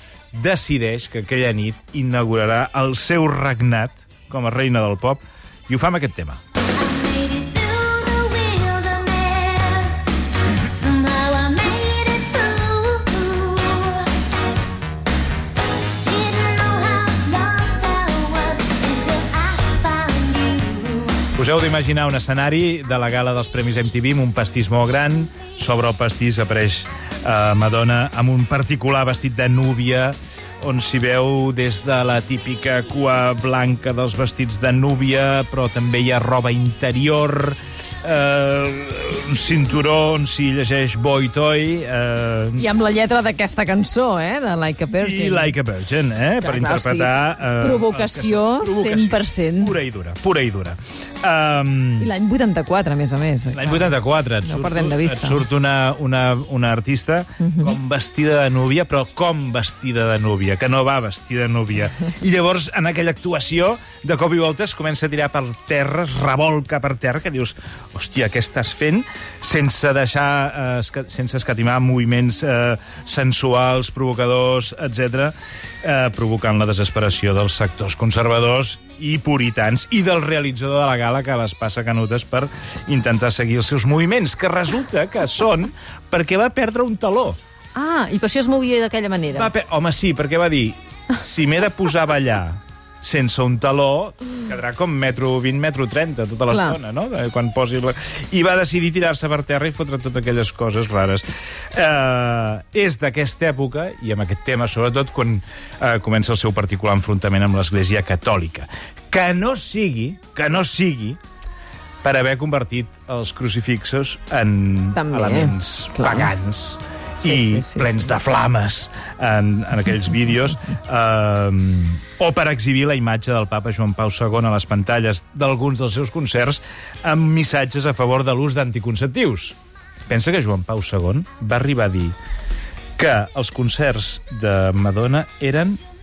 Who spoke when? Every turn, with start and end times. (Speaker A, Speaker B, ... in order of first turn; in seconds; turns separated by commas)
Speaker A: 0.3-6.4, Speaker B: 6.8-14.1, Speaker B: 16.0-21.3, Speaker A: 21.3-42.7, Speaker C: 42.6-45.5, Speaker A: 45.0-52.1, Speaker C: 46.4-49.8, Speaker C: 52.0-55.4, Speaker A: 53.5-87.4, Speaker C: 57.4-57.7, Speaker C: 87.7-89.5, Speaker A: 89.3-111.2, Speaker C: 96.5-96.8, Speaker A: 112.0-132.2, Speaker C: 114.9-116.3, Speaker C: 117.2-118.1, Speaker A: 133.0-135.8